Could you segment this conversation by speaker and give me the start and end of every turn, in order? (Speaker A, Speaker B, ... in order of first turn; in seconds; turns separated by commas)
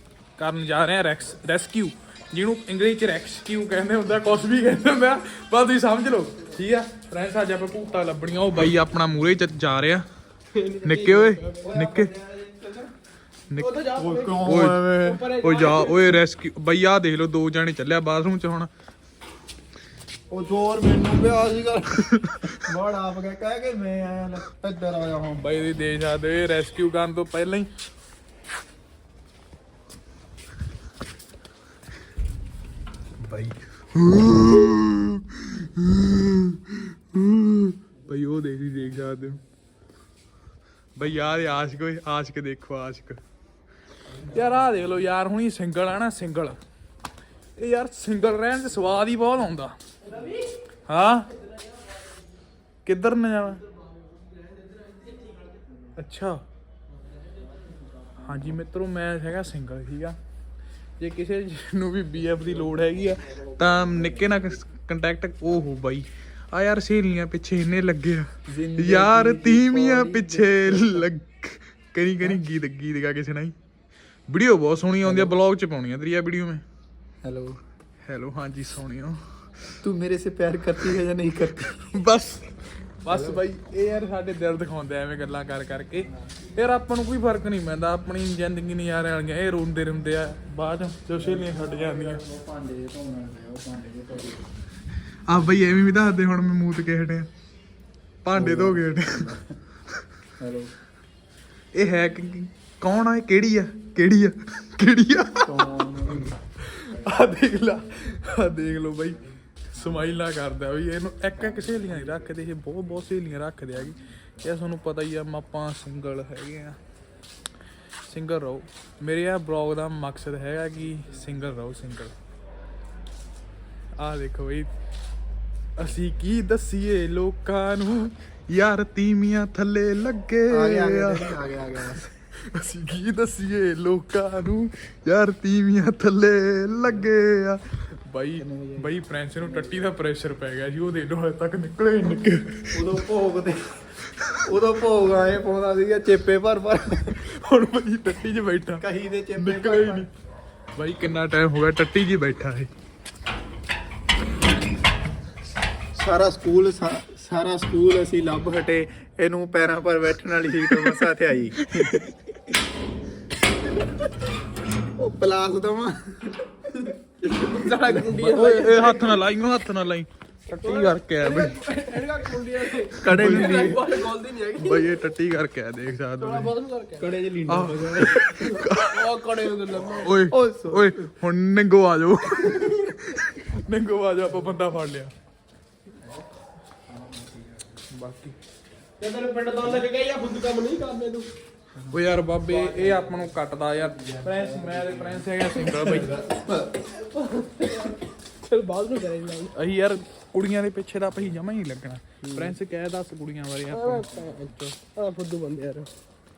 Speaker A: 0.4-10.1, Speaker B: 10.5-11.7, Speaker A: 10.8-12.1, Speaker C: 11.6-12.9, Speaker A: 13.5-13.8, Speaker B: 13.5-16.2, Speaker C: 13.9-15.2, Speaker A: 14.4-18.7, Speaker C: 20.3-25.5, Speaker A: 22.1-22.6, Speaker A: 25.4-27.7, Speaker A: 33.3-39.4, Speaker A: 41.0-43.2, Speaker A: 44.2-46.6, Speaker A: 47.6-49.8, Speaker A: 50.9-51.3, Speaker A: 52.9-53.6, Speaker B: 54.9-55.3, Speaker A: 56.0-56.4, Speaker A: 58.2-60.2, Speaker A: 61.0-73.5, Speaker C: 68.5-71.0, Speaker A: 74.3-76.6, Speaker C: 75.0-75.3, Speaker C: 77.2-77.6, Speaker A: 78.0-79.2, Speaker C: 79.8-81.8, Speaker A: 81.7-92.2, Speaker C: 83.1-83.4, Speaker C: 91.2-94.5, Speaker A: 95.3-97.3, Speaker A: 98.2-99.4, Speaker C: 98.3-99.6, Speaker C: 100.4-100.7, Speaker A: 101.7-116.8, Speaker C: 105.4-106.3, Speaker A: 118.1-122.2, Speaker A: 124.0-124.7, Speaker A: 125.8-143.0, Speaker C: 130.5-132.1, Speaker C: 142.7-147.2, Speaker A: 144.2-144.5, Speaker A: 147.0-148.8, Speaker C: 148.8-150.1, Speaker A: 149.4-150.1, Speaker A: 150.8-152.7, Speaker C: 155.9-162.2, Speaker A: 160.8-161.0, Speaker A: 161.6-162.1, Speaker C: 164.9-168.2, Speaker B: 167.2-169.2, Speaker A: 168.1-171.6, Speaker B: 170.6-174.9, Speaker C: 173.0-174.0, Speaker A: 173.0-173.7, Speaker A: 174.6-176.5, Speaker B: 176.2-180.1, Speaker C: 177.0-178.3, Speaker A: 177.5-179.2, Speaker A: 180.0-185.1, Speaker C: 180.3-181.1, Speaker C: 186.9-187.6, Speaker A: 187.9-188.4, Speaker B: 189.0-191.3, Speaker C: 191.8-193.2, Speaker A: 191.9-196.2, Speaker C: 194.0-195.3, Speaker C: 195.8-196.8, Speaker B: 196.8-199.6, Speaker A: 199.5-204.8, Speaker B: 202.2-202.6, Speaker B: 203.7-205.9